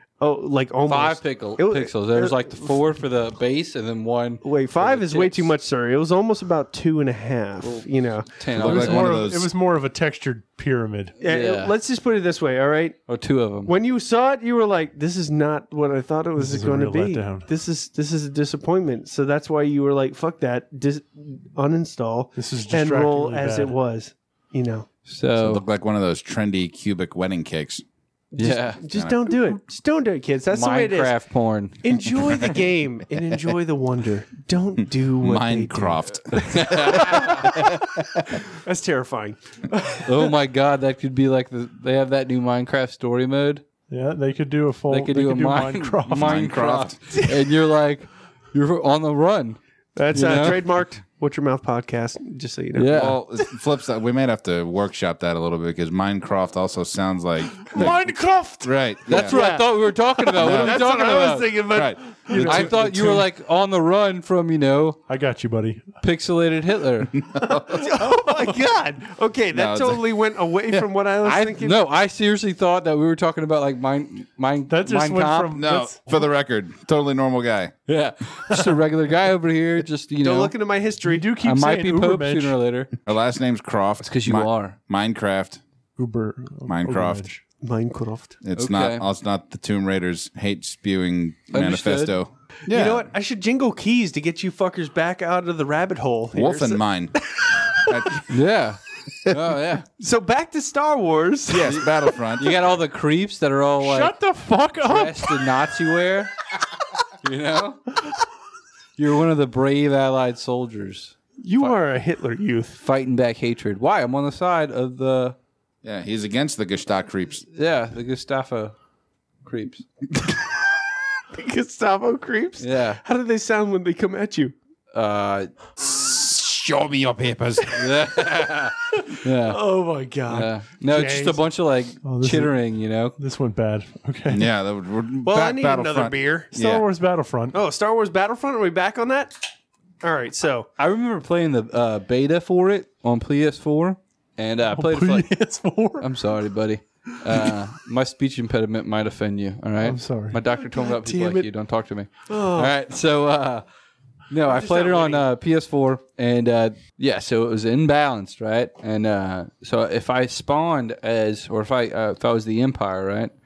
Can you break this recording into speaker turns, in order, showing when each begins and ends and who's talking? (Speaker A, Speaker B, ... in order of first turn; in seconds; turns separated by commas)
Speaker A: 0.2-2.8, Speaker B: 0.9-5.5, Speaker A: 4.4-8.3, Speaker B: 7.6-9.2, Speaker C: 8.5-9.5, Speaker D: 8.6-11.2, Speaker B: 11.2-11.7, Speaker A: 11.2-13.0, Speaker B: 13.1-13.7, Speaker A: 13.7-24.9, Speaker D: 16.4-17.5, Speaker D: 22.4-23.8, Speaker B: 25.1-25.6, Speaker C: 25.4-27.8, Speaker A: 28.3-31.1, Speaker B: 28.4-28.8, Speaker C: 28.9-29.2, Speaker B: 30.5-31.8, Speaker A: 31.8-40.3, Speaker C: 35.2-38.4, Speaker B: 36.3-37.5, Speaker B: 40.0-43.6, Speaker D: 43.9-46.4, Speaker B: 44.9-49.6, Speaker C: 46.1-47.0, Speaker A: 50.0-53.5, Speaker B: 50.1-50.7, Speaker B: 52.8-53.2, Speaker C: 52.9-59.4, Speaker D: 57.6-58.8, Speaker B: 59.1-61.6, Speaker A: 59.2-63.1, Speaker C: 60.4-60.8, Speaker C: 61.7-63.0, Speaker D: 62.3-62.8, Speaker B: 62.4-65.0, Speaker D: 65.1-66.0, Speaker B: 66.0-67.1, Speaker C: 67.1-67.9, Speaker A: 67.5-71.8, Speaker C: 69.5-70.2, Speaker B: 71.2-75.6, Speaker D: 74.7-76.0, Speaker C: 75.5-77.7, Speaker B: 77.9-80.5, Speaker A: 80.2-81.3, Speaker D: 81.0-82.6, Speaker B: 81.4-82.9, Speaker C: 83.1-85.6, Speaker B: 84.0-84.8, Speaker D: 86.0-87.4, Speaker C: 86.7-87.3, Speaker A: 87.6-88.4, Speaker C: 88.4-93.1, Speaker B: 88.6-89.0, Speaker B: 91.5-92.2, Speaker A: 92.7-98.2, Speaker C: 96.3-97.2, Speaker C: 97.8-98.3, Speaker B: 98.3-99.9, Speaker A: 100.0-102.0, Speaker C: 101.5-102.6, Speaker B: 102.4-104.2, Speaker D: 103.8-105.5, Speaker B: 104.8-106.3, Speaker B: 107.2-107.8, Speaker B: 109.0-111.7, Speaker A: 111.4-112.8, Speaker B: 112.8-115.4, Speaker C: 115.8-117.5, Speaker B: 117.5-118.8, Speaker B: 119.4-119.8, Speaker A: 121.3-124.5, Speaker B: 122.6-123.0, Speaker B: 124.9-125.5, Speaker C: 125.8-127.9, Speaker B: 127.8-129.6, Speaker A: 129.0-131.4, Speaker B: 130.3-133.2, Speaker D: 132.0-132.6, Speaker D: 133.2-134.5, Speaker C: 134.3-136.9, Speaker A: 135.2-136.6, Speaker D: 136.5-137.6, Speaker A: 137.5-139.3, Speaker A: 140.0-140.7, Speaker B: 140.8-145.3, Speaker D: 144.7-146.1, Speaker B: 146.0-153.6, Speaker D: 149.8-150.4, Speaker A: 150.6-151.5, Speaker A: 152.3-152.7, Speaker B: 154.3-163.3, Speaker A: 154.5-155.3